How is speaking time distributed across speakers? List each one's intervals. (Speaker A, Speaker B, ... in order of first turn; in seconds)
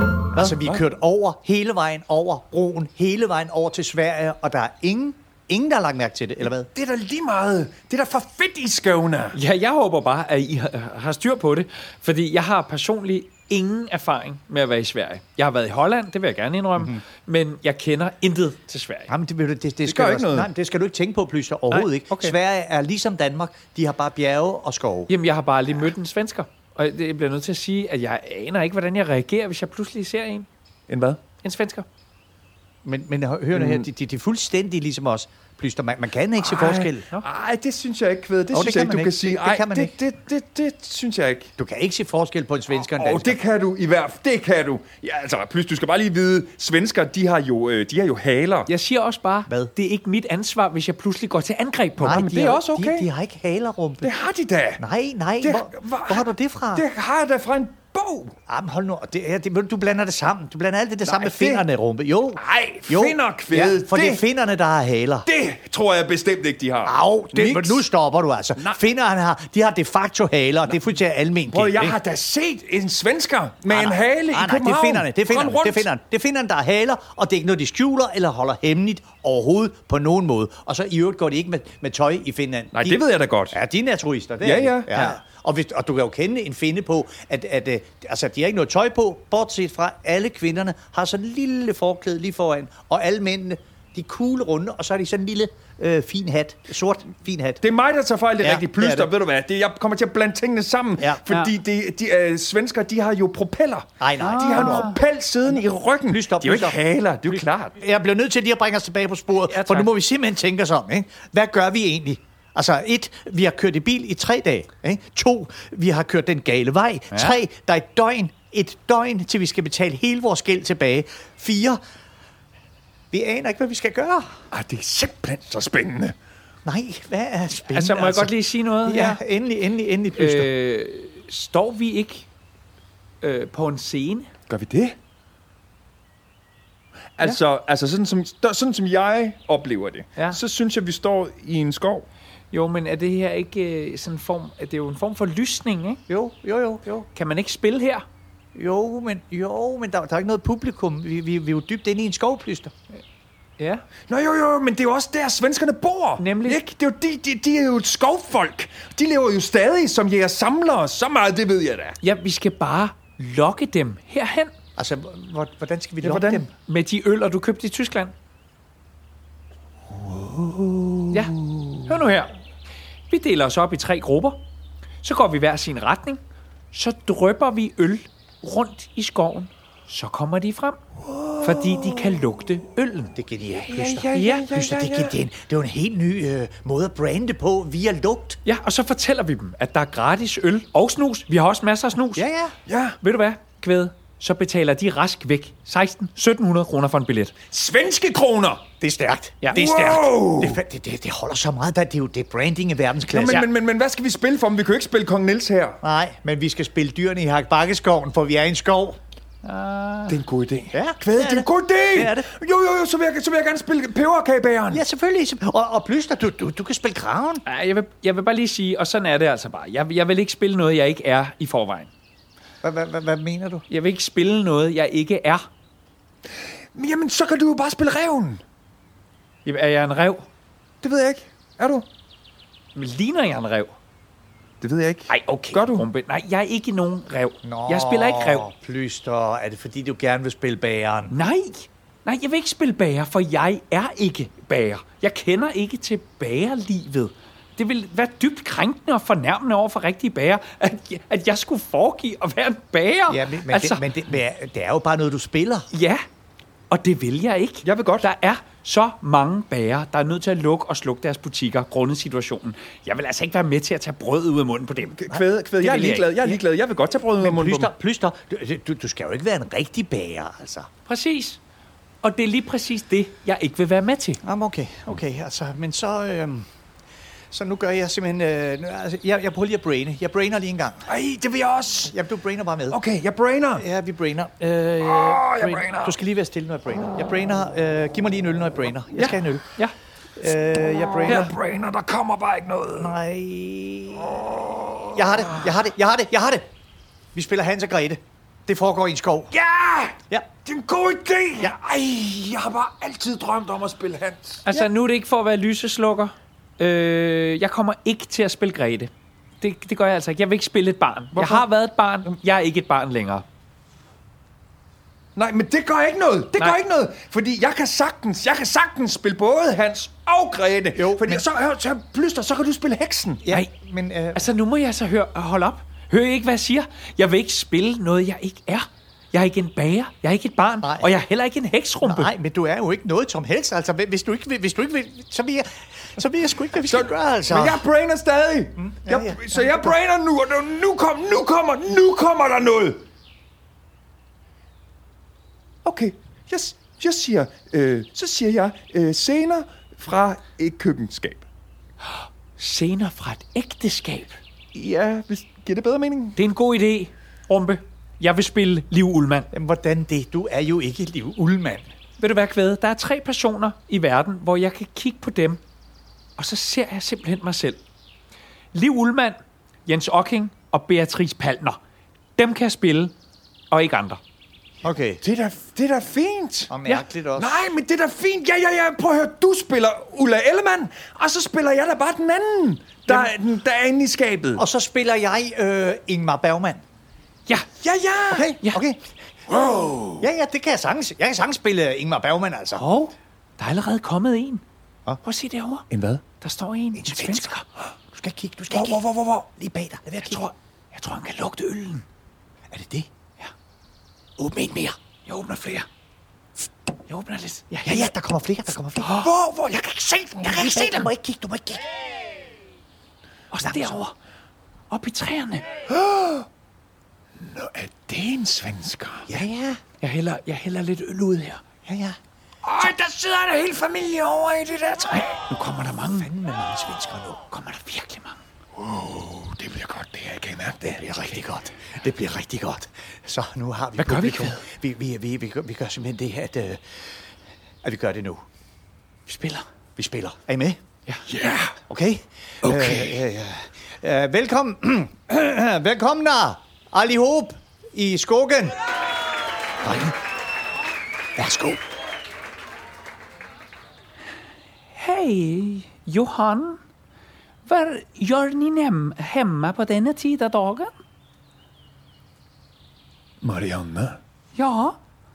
Speaker A: 0.3-6.7, 19.1-25.1, 32.8-37.1, 38.5-39.9, 41.6-43.4, 52.0-54.1, 54.8-56.8, 58.5-65.3, 66.8-72.0, 73.7-97.6, 98.4-99.1, 104.0-104.9, 106.0-106.8, 107.8-121.8, 123.1-124.4, 126.6-130.5, 146.1-147.1, 148.5-152.7, 164.8-166.5, 183.1-188.4, 192.1-192.6, 198.8-203.4, 205.8-209.0, 210.7-212.3, 214.7-217.4, 222.6-223.7, 237.4-241.1, 253.1-255.7, 265.1-266.4, 267.2-270.7, 274.2-276.4, 277.3-280.9, 281.9-282.8, 283.5-289.4, 290.2-291.3, 292.8-294.2, 294.9-296.4, 297.1-299.3, 320.8-321.2, 323.2-324.3, 330.6-330.9, 331.8-337.6, 338.6-339.7, 359.3-361.7, 374.6-375.0, 376.5-377.5, 384.4-386.6, 388.1-388.8, 390.0-392.6, 396.7-397.3, 397.9-398.8, 399.4-400.3, 402.5-402.9, 404.2-404.7, 407.6-409.0, 410.2-411.6, 413.4-413.8, 419.1-419.6, 421.6-422.0, 425.9-427.2, 430.6-436.6, 437.6-438.2, 439.8-440.6, 441.7-448.6, 449.6-449.9, 451.1-451.6
Speaker B: 0.4-0.8, 6.7-9.4, 19.8-20.5, 30.9-31.2, 33.5-33.9, 36.4-41.5, 42.7-48.7, 52.1-53.1, 54.0-54.8, 55.4-58.3, 61.0-61.7, 62.4-64.2, 65.2-67.9, 71.5-75.9, 82.7-83.5, 84.4-84.9, 97.6-107.7, 124.5-126.1, 134.5-134.9, 137.2-142.1, 154.1-162.0, 166.0-166.4, 169.9-171.8, 181.1-182.3, 183.6-185.2, 192.7-193.0, 197.5-198.6, 199.5-200.6, 203.1-205.8, 210.1-214.8, 226.7-228.4, 230.8-231.8, 234.6-235.9, 257.6-258.1, 264.9-267.7, 280.9-281.9, 282.7-283.6, 284.7-286.0, 291.0-292.9, 294.0-295.4, 299.3-304.4, 311.1-311.5, 315.1-323.2, 336.6-342.8, 345.6-351.2, 354.5-356.2, 375.0-376.5, 377.1-384.4, 387.6-388.3, 389.3-390.1, 395.7-396.0, 398.5-399.3, 409.0-410.7, 415.7-416.3, 417.2-419.1, 422.4-425.2, 428.6-431.1, 441.1-441.5, 463.2-464.0
Speaker C: 9.3-19.1, 21.7-22.4, 25.1-30.5, 31.4-31.9, 48.7-52.3, 104.2-105.0, 109.4-109.9, 127.5-129.2, 130.1-132.3, 133.2-134.3, 142.5-146.0, 147.1-148.0, 153.6-153.8, 156.2-156.6, 162.0-164.5, 166.6-168.1, 171.8-172.3, 173.1-174.4, 175.0-180.8, 181.4-183.2, 184.1-184.5, 188.4-192.3, 193.0-197.3, 209.4-210.2, 217.4-221.9, 223.7-225.5, 229.4-230.3, 232.7-233.8, 235.1-238.5, 241.1-253.9, 255.7-256.0, 256.7-265.0, 265.6-266.0, 270.9-271.4, 272.0-274.2, 288.9-289.7, 304.4-313.2, 324.1-332.1, 352.4-354.2, 356.1-359.3, 362.0-365.4, 366.2-367.6, 368.5-371.6, 372.2-372.9, 373.5-374.0, 392.6-394.4, 395.0-395.6, 396.2-397.4, 400.0-401.8, 405.0-405.7, 406.9-407.9, 408.8-409.1, 410.3-410.9, 413.3-413.9, 414.7-415.4, 419.8-421.4, 425.1-426.1, 427.3-428.2, 433.8-434.4, 439.1-439.4, 442.4-443.0, 454.7-456.6, 457.4-460.8, 464.3-464.8